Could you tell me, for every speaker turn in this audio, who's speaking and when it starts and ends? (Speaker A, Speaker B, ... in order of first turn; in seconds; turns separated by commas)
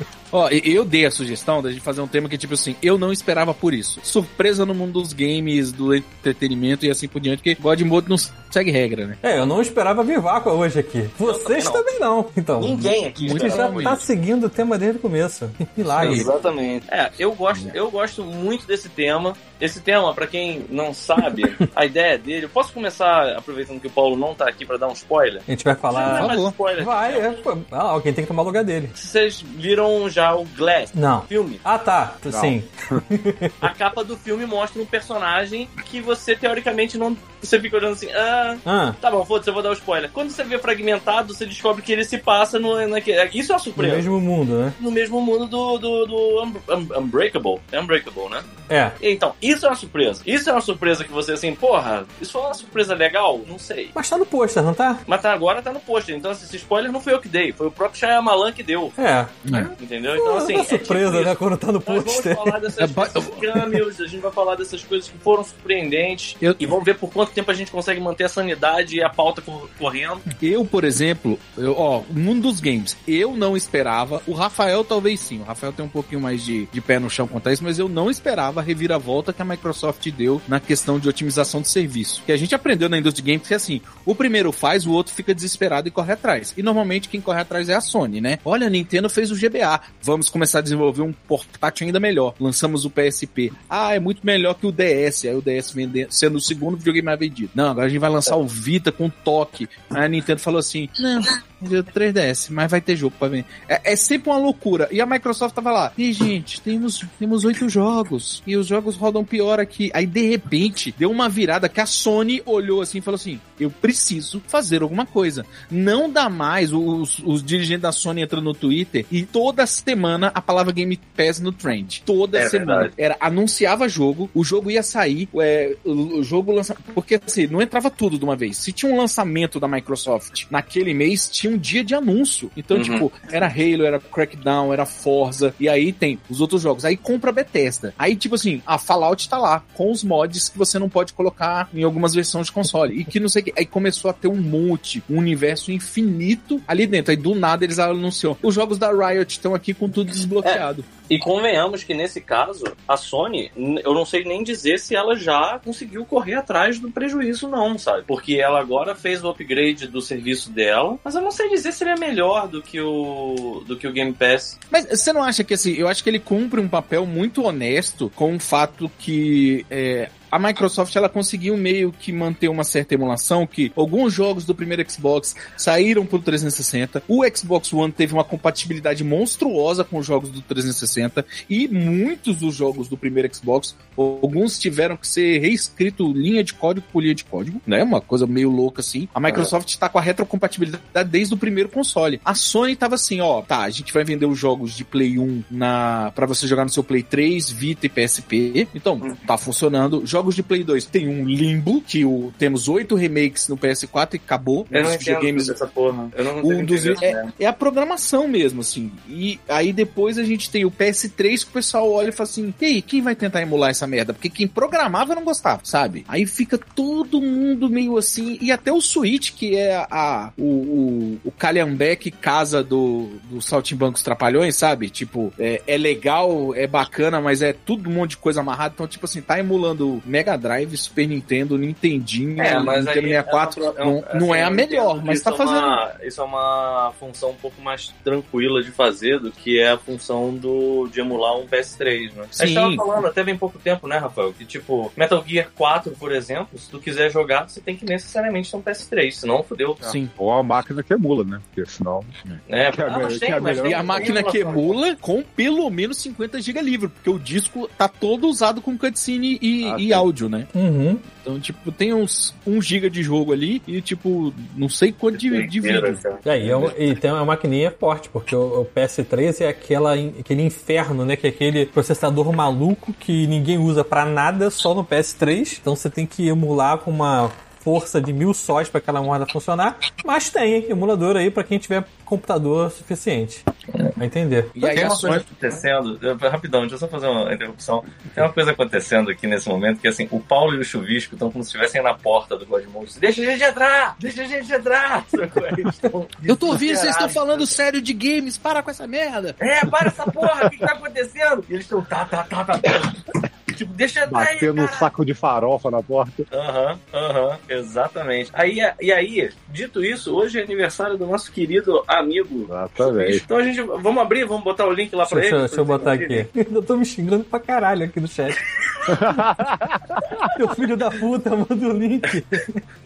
Speaker A: 0.3-9.2, Speaker B: 9.2-16.3, Speaker C: 11.2-11.9, Speaker C: 12.6-14.0, Speaker A: 13.2-14.0, Speaker A: 15.9-16.3, Speaker C: 16.0-27.4, Speaker B: 21.2-21.6, Speaker B: 25.5-28.9, Speaker A: 26.0-26.6, Speaker C: 29.0-31.6, Speaker B: 30.9-33.5, Speaker D: 32.3-32.6, Speaker C: 33.6-44.1, Speaker B: 38.7-39.0, Speaker B: 43.8-44.8, Speaker C: 44.8-48.5, Speaker B: 48.7-49.0, Speaker C: 49.0-54.0, Speaker B: 54.0-55.0, Speaker C: 55.1-59.0, Speaker B: 59.0-59.5, Speaker C: 59.5-70.3, Speaker B: 60.1-62.6, Speaker A: 62.8-63.8, Speaker A: 70.4-150.9, Speaker C: 122.3-122.9, Speaker C: 132.7-133.1, Speaker C: 150.4-164.6, Speaker A: 164.7-205.5, Speaker C: 204.7-207.3, Speaker A: 206.4-235.8, Speaker C: 232.4-249.9, Speaker A: 242.3-242.8, Speaker D: 249.8-252.1, Speaker A: 249.8-250.1, Speaker C: 252.5-254.8, Speaker D: 252.7-254.2, Speaker A: 253.6-260.5, Speaker D: 259.6-260.1, Speaker B: 260.5-261.0, Speaker A: 261.1-266.7, Speaker C: 265.1-266.7, Speaker B: 266.2-283.4, Speaker B: 284.0-284.6, Speaker A: 284.6-285.2, Speaker C: 284.6-297.6, Speaker A: 296.3-299.4, Speaker C: 299.4-303.0, Speaker C: 303.5-304.9, Speaker D: 304.1-306.2, Speaker C: 306.3-316.3, Speaker D: 312.5-313.2, Speaker B: 315.1-318.4, Speaker D: 318.9-320.0, Speaker B: 320.2-322.5